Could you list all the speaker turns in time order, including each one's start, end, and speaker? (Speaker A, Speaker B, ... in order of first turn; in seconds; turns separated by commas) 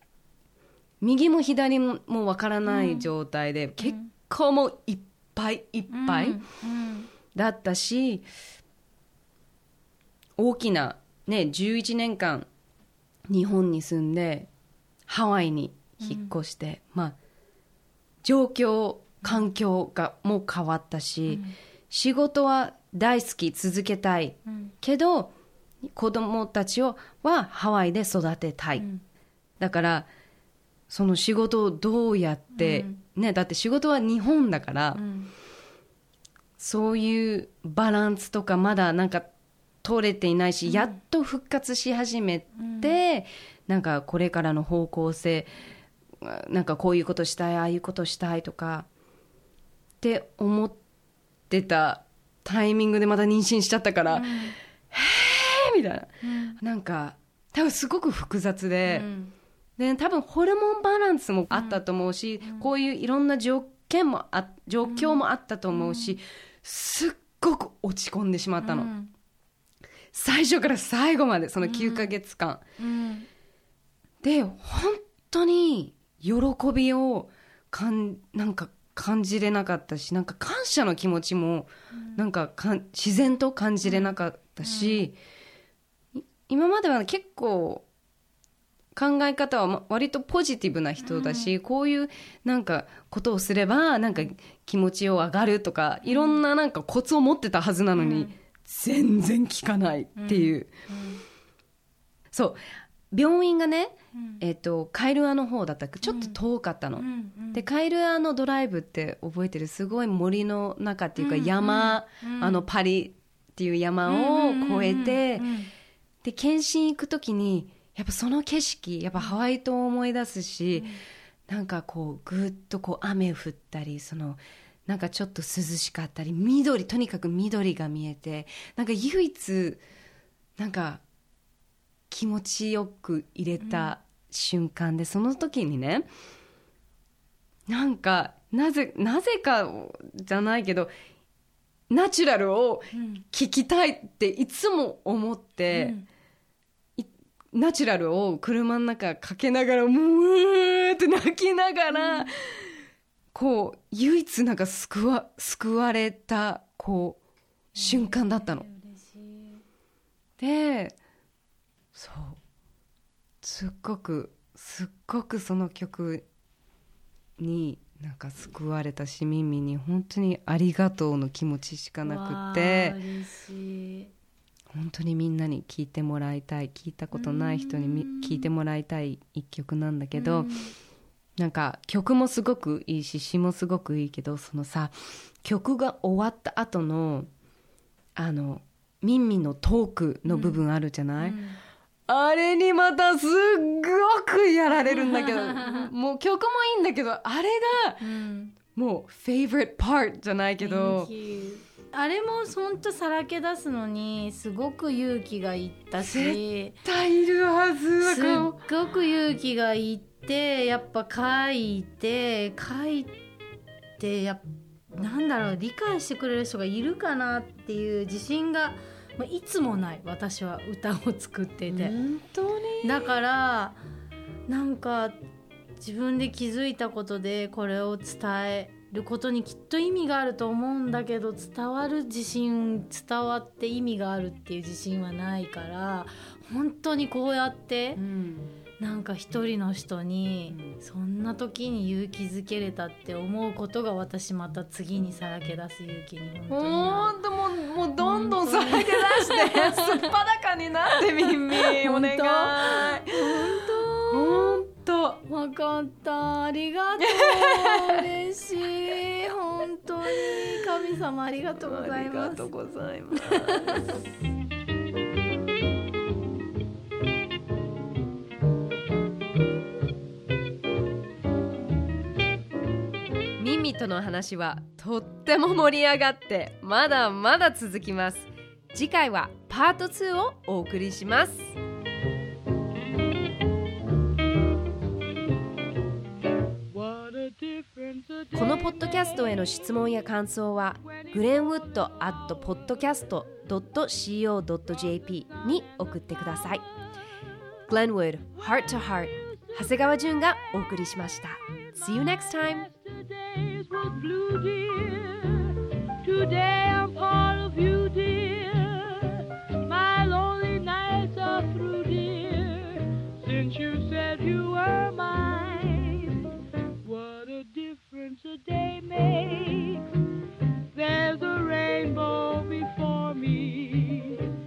Speaker A: 1.0-6.4, Speaker B: 2.6-3.1, Speaker B: 3.8-4.1, Speaker B: 5.9-7.1, Speaker A: 7.3-8.3, Speaker A: 10.4-12.5, Speaker A: 13.3-14.5, Speaker A: 15.1-17.1, Speaker B: 16.0-16.3, Speaker A: 18.2-25.3, Speaker B: 21.3-21.5, Speaker B: 24.5-24.7, Speaker A: 25.9-28.9, Speaker A: 29.6-30.1, Speaker A: 30.9-35.0, Speaker B: 32.5-33.0, Speaker B: 35.0-35.3, Speaker A: 36.6-39.3, Speaker A: 39.8-45.5, Speaker B: 40.7-41.0, Speaker B: 42.6-43.0, Speaker A: 46.2-48.9, Speaker A: 50.0-50.8, Speaker A: 51.5-54.3, Speaker B: 54.1-54.6, Speaker A: 54.9-59.1, Speaker B: 56.2-56.6, Speaker B: 58.9-59.3, Speaker A: 59.8-68.9, Speaker B: 61.5-61.8, Speaker B: 64.9-66.2, Speaker B: 68.6-69.1, Speaker A: 70.1-72.6, Speaker B: 71.6-72.1, Speaker B: 72.8-73.3, Speaker A: 74.2-85.1, Speaker B: 83.8-85.1, Speaker A: 86.2-87.8, Speaker A: 88.9-100.7, Speaker B: 91.0-91.5, Speaker B: 96.0-96.4, Speaker B: 97.9-98.3, Speaker B: 100.2-101.2, Speaker A: 102.3-102.6, Speaker A: 103.1-115.5, Speaker B: 104.1-104.4, Speaker B: 106.0-106.4, Speaker B: 107.0-107.6, Speaker B: 111.2-112.7, Speaker B: 114.0-115.7, Speaker A: 116.2-121.0, Speaker B: 120.8-121.0, Speaker A: 121.5-129.8, Speaker A: 130.6-131.0, Speaker A: 132.1-136.1, Speaker B: 133.6-133.9, Speaker A: 137.7-140.9, Speaker A: 141.9-145.9, Speaker B: 142.9-143.2, Speaker B: 145.7-146.1, Speaker A: 147.0-152.7, Speaker B: 151.9-152.3, Speaker A: 153.3-157.2, Speaker B: 157.8-159.6, Speaker A: 157.8-158.7, Speaker A: 160.4-161.0, Speaker A: 161.9-162.4, Speaker A: 163.4-166.2, Speaker A: 167.4-173.0, Speaker B: 172.0-174.1, Speaker A: 174.7-180.5, Speaker B: 177.1-178.5, Speaker B: 180.1-180.7, Speaker A: 181.4-187.3, Speaker A: 188.2-191.4, Speaker B: 190.3-190.6, Speaker B: 191.2-191.6, Speaker A: 192.1-198.0, Speaker B: 194.9-195.9, Speaker B: 198.0-198.6, Speaker A: 198.7-201.1, Speaker B: 200.6-206.8, Speaker A: 206.0-208.6, Speaker B: 208.0-213.2, Speaker B: 214.0-221.9, Speaker A: 221.7-223.1, Speaker B: 222.8-223.8, Speaker B: 224.5-225.2, Speaker B: 225.8-238.0, Speaker A: 237.9-238.5, Speaker B: 238.8-247.1, Speaker A: 240.5-240.8, Speaker A: 246.5-255.2, Speaker B: 248.0-250.1, Speaker B: 250.9-254.6, Speaker B: 255.2-262.5, Speaker A: 257.0-258.1, Speaker A: 260.0-261.0, Speaker A: 261.6-263.9, Speaker B: 263.1-264.0, Speaker A: 273.4-281.6, Speaker C: 286.7-289.7, Speaker A: 288.3-296.6, Speaker C: 290.8-293.4, Speaker C: 294.9-296.7, Speaker A: 297.7-302.6, Speaker C: 298.4-299.6, Speaker C: 301.7-316.3, Speaker C: 316.8-319.9, Speaker C: 320.7-324.2